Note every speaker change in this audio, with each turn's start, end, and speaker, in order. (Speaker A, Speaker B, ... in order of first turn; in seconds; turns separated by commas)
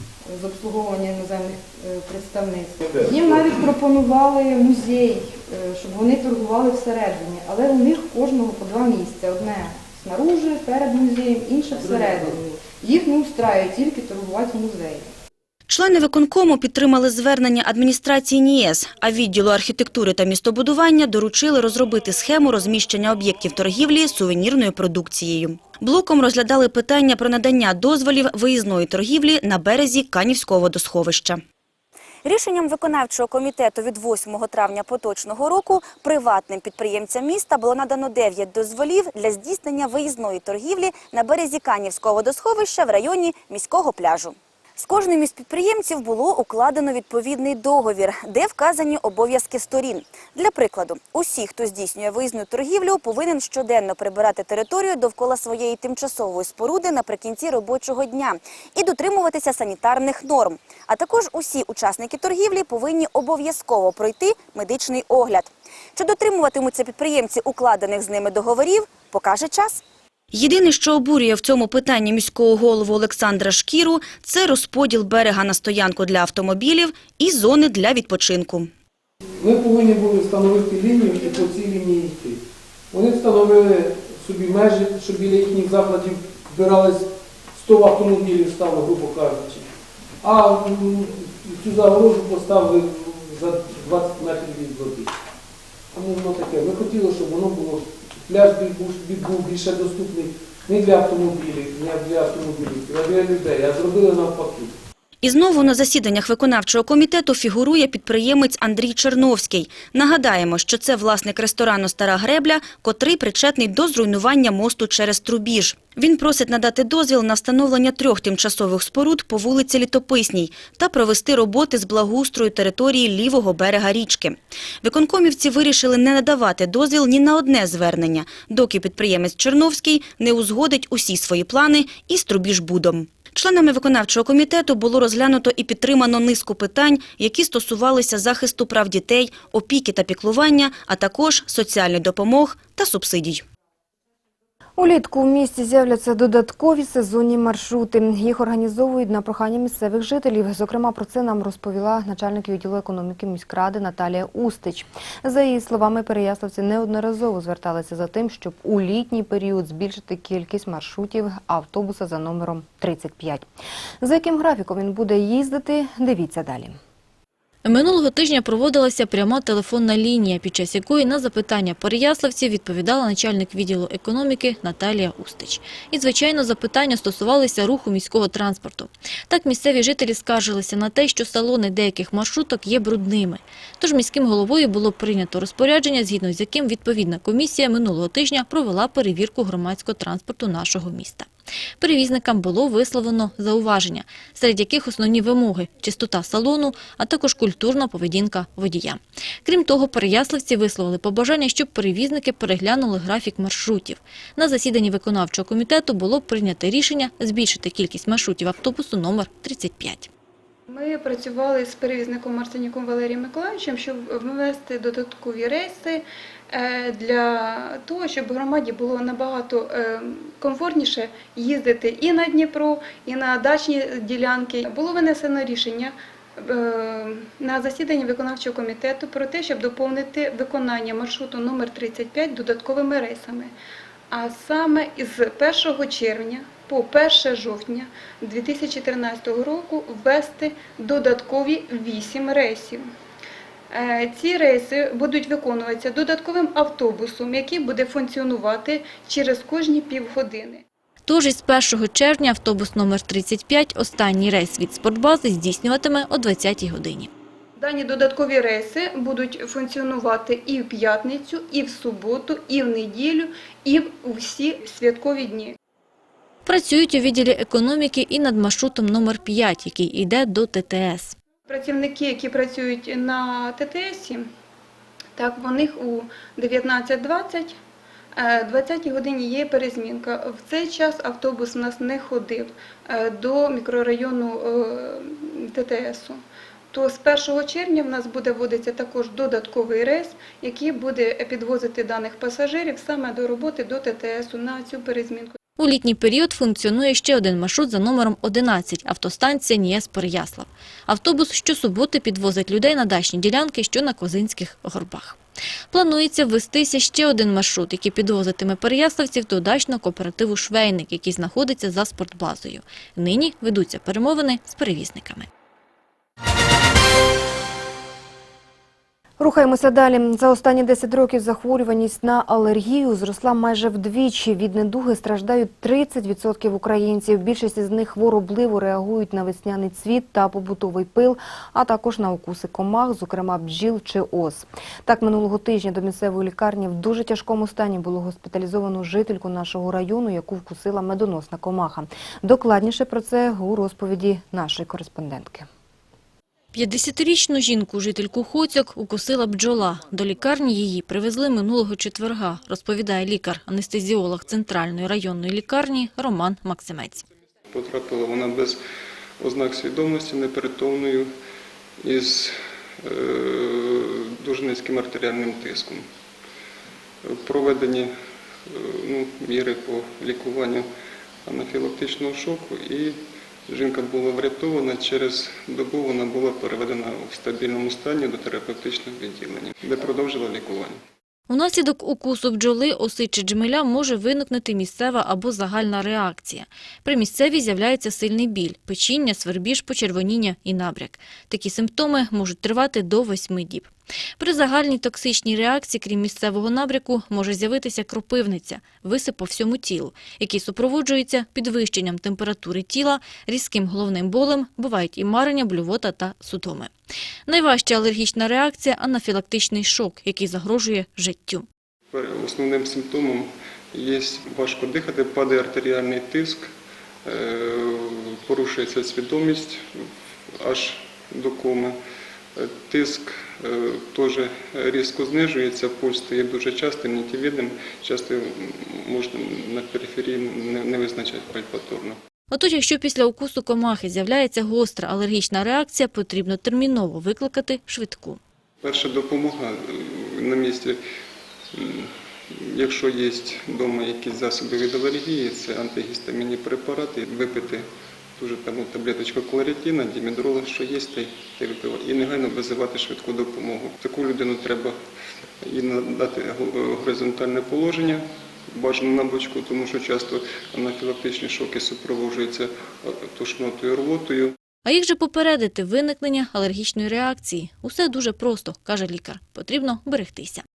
Speaker A: 0.3-15.1, Speaker B: 11.7-12.4, Speaker C: 15.7-31.4, Speaker C: 32.2-69.8, Speaker C: 70.3-78.7, Speaker B: 79.4-82.4, Speaker B: 82.9-89.7, Speaker B: 90.2-95.1, Speaker B: 95.9-104.8, Speaker C: 105.2-143.4, Speaker D: 144.8-163.5, Speaker D: 164.0-166.8, Speaker E: 167.7-191.3, Speaker E: 191.8-210.1, Speaker F: 210.7-233.5, Speaker F: 234.1-242.9, Speaker F: 243.7-250.6, Speaker E: 251.1-257.1, Speaker F: 257.6-265.6, Speaker E: 266.5-271.2, Speaker F: 271.5-274.3, Speaker F: 275.2-277.6, Speaker F: 278.1-286.2, Speaker F: 286.7-295.4, Speaker E: 295.6-305.2, Speaker E: 305.7-315.3, Speaker D: 319.2-345.5, Speaker E: 346.5-357.1, Speaker G: 357.5-358.6, Speaker G: 359.2-361.1, Speaker G: 361.8-365.9, Speaker G: 367.0-367.9, Speaker G: 368.5-370.7, Speaker G: 371.2-380.8, Speaker E: 381.3-406.7, Speaker E: 407.3-411.5, Speaker G: 411.9-416.5, Speaker G: 417.1-419.9, Speaker G: 420.4-421.8, Speaker G: 422.4-432.0, Speaker E: 432.3-438.2, Speaker G: 438.6-440.8, Speaker G: 441.5-454.8, Speaker G: 455.4-464.4, Speaker E: 464.6-470.4